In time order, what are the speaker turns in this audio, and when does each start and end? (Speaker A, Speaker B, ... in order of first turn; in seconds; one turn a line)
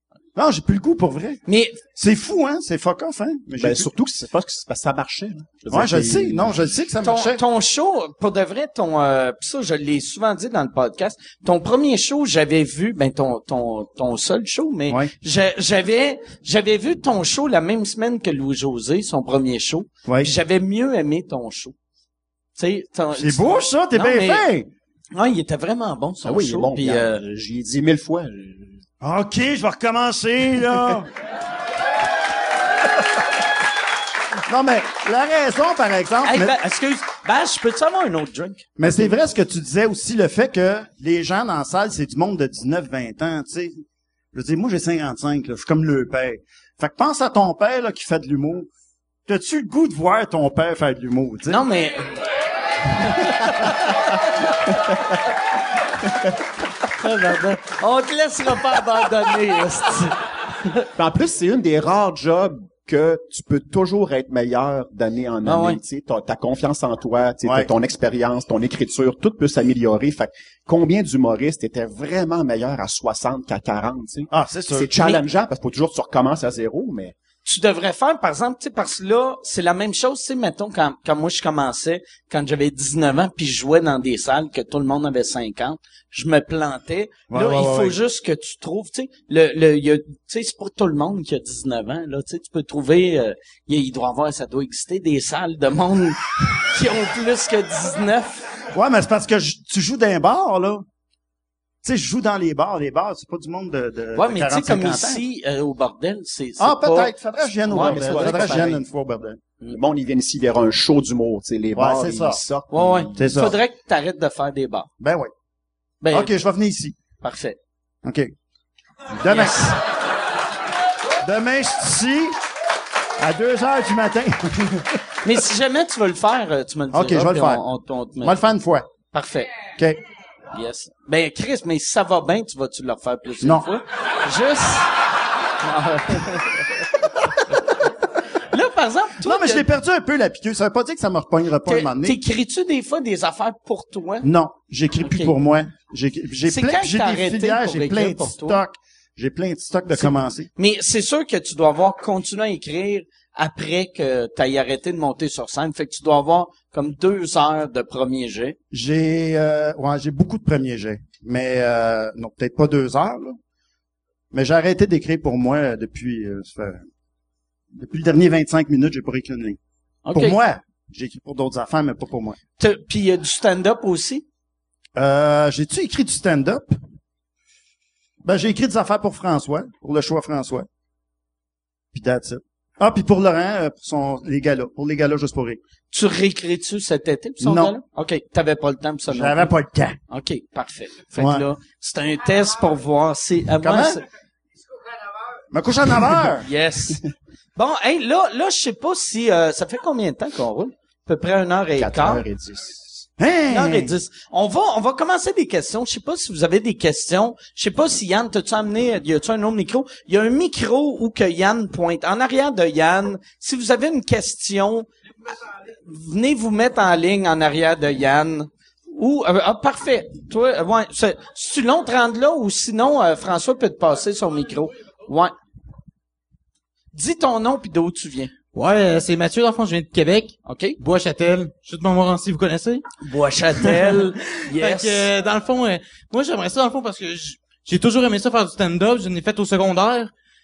Speaker A: 0.3-1.4
Speaker B: 1.4-1.8
Speaker A: 1.9-3.9
Speaker C: 3.6-6.5
Speaker A: 5.7-7.4
Speaker B: 7.0-21.7
Speaker A: 20.1-20.3
Speaker B: 22.6-24.5
Speaker A: 23.1-24.7
Speaker B: 25.1-27.2
Speaker C: 26.2-28.8
Speaker A: 29.0-31.1
Speaker A: 34.5-36.5
Speaker B: 36.2-38.7
Speaker A: 38.8-48.7
Speaker A: 49.2-51.6
Speaker B: 51.5-52.1
Speaker B: 53.0-53.9
Speaker B: 57.0-60.1
Speaker C: 61.0-77.1
Speaker B: 65.4-65.8
Speaker A: 74.3-74.9
Speaker B: 77.4-98.5
Speaker A: 87.3-88.0
Speaker A: 98.7-100.9
Speaker A: 101.8-105.2
Speaker B: 104.1-107.1
Speaker A: 106.6-109.4
Speaker B: 107.7-108.8
Speaker C: 107.7-108.8
Speaker C: 109.7-113.5
Speaker A: 111.7-112.4
Speaker B: 112.7-114.9
Speaker A: 113.2-113.5
Speaker A: 115.0-115.3
Speaker B: 116.0-116.3
Speaker A: 116.1-116.9
Speaker B: 117.2-117.6
Speaker A: 118.0-118.3
Speaker A: 119.2-119.8
Speaker B: 119.2-119.7
Speaker A: 121.2-122.4
Speaker A: 123.2-125.0
Speaker B: 125.2-128.4
Speaker A: 126.9-127.6
Speaker A: 128.2-128.9
Speaker B: 129.1-129.5
Speaker B: 130.5-134.9
Speaker A: 133.4-133.7
Speaker B: 135.6-137.6
Speaker B: 138.5-139.7
Speaker A: 139.2-142.2
Speaker B: 141.7-144.3
Speaker A: 144.2-150.5
Speaker B: 145.0-145.3
Speaker B: 146.4-148.6
Speaker B: 149.9-158.6
Speaker A: 158.7-163.4
Speaker A: 164.3-166.9
Speaker A: 167.7-169.6
Speaker B: 170.0-170.4
Speaker A: 170.1-172.4
Speaker B: 172.6-174.2
Speaker A: 174.9-176.8
Speaker A: 178.2-180.7
Speaker A: 181.9-185.6
Speaker B: 185.9-189.5
Speaker A: 187.4-187.8
Speaker A: 189.1-190.0
Speaker B: 190.1-194.0
Speaker A: 191.2-191.4
Speaker A: 193.6-194.0
Speaker A: 195.5-196.5
Speaker B: 196.4-197.0
Speaker B: 197.6-202.2
Speaker C: 201.8-203.0
Speaker A: 203.2-203.9
Speaker B: 203.5-214.9
Speaker B: 215.8-225.3
Speaker B: 226.9-228.3
Speaker D: 228.5-232.9
Speaker B: 230.4-230.8
Speaker B: 233.0-235.1
Speaker D: 233.6-240.1